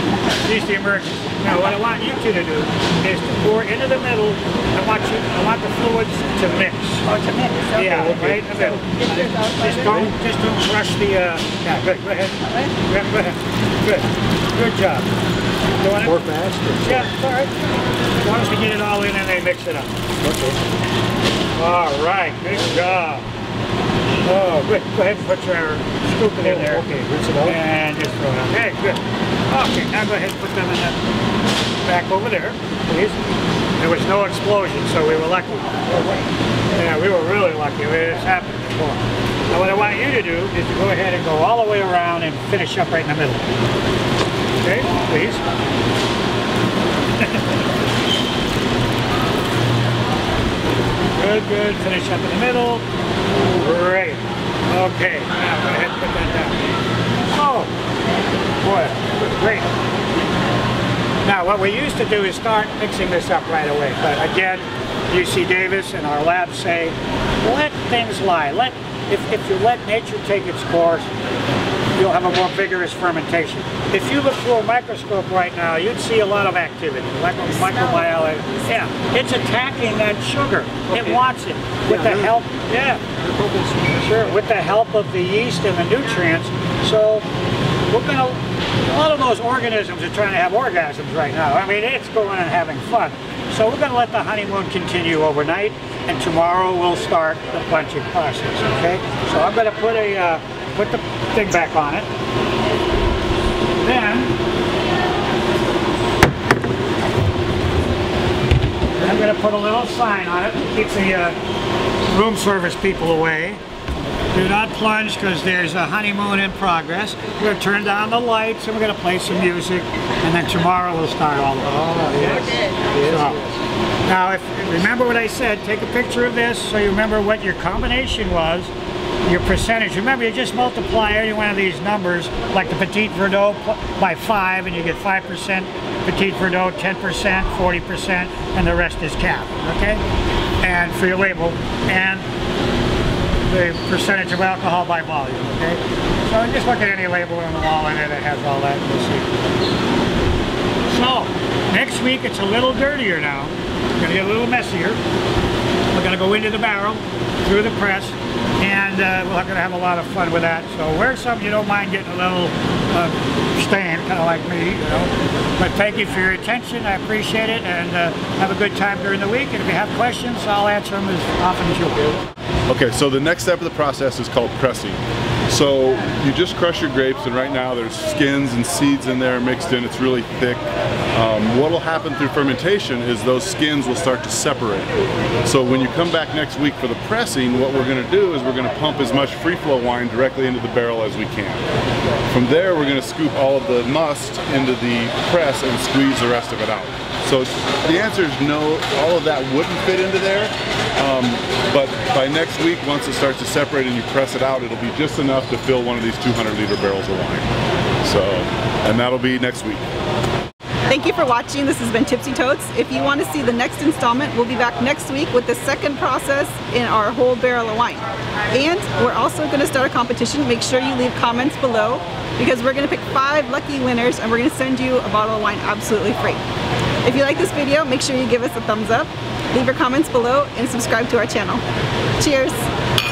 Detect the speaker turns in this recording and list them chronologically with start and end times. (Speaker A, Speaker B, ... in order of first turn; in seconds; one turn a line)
Speaker A: 0.3-7.1
Speaker B: 7.1-7.8
Speaker A: 7.7-15.1
Speaker C: 7.8-8.8
Speaker B: 8.8-9.9
Speaker B: 12.4-12.7
Speaker A: 15.8-16.2
Speaker C: 16.0-17.0
Speaker A: 16.8-17.5
Speaker A: 18.2-19.9
Speaker C: 20.2-20.6
Speaker A: 21.5-23.3
Speaker A: 24.2-26.9
Speaker C: 26.4-27.6
Speaker A: 27.4-31.0
Speaker A: 31.8-33.2
Speaker A: 33.8-36.2
Speaker A: 36.7-43.5
Speaker A: 44.6-45.4
Speaker A: 51.1-52.8
Speaker A: 53.5-56.6
Speaker A: 57.3-57.7
Speaker A: 58.6-59.6
Speaker A: 61.2-71.1
Speaker A: 71.9-83.0
Speaker B: 77.6-78.5
Speaker C: 83.4-84.0
Speaker A: 84.0-87.3
Speaker A: 87.9-102.0
Speaker A: 103.8-104.3
Speaker A: 108.9-111.4
Speaker A: 112.1-113.6
Speaker A: 114.3-123.4
Speaker C: 122.2-123.1
Speaker A: 124.0-128.7
Speaker A: 129.2-140.0
Speaker A: 140.6-142.3
Speaker A: 143.4-149.3
Speaker A: 150.8-155.0
Speaker A: 155.9-172.2
Speaker D: 172.7-184.9
Speaker D: 185.4-191.7
Speaker D: 192.3-207.5
Speaker D: 208.0-209.9
Speaker B: 210.9-226.4
Speaker B: 227.0-231.6
Speaker B: 232.2-232.6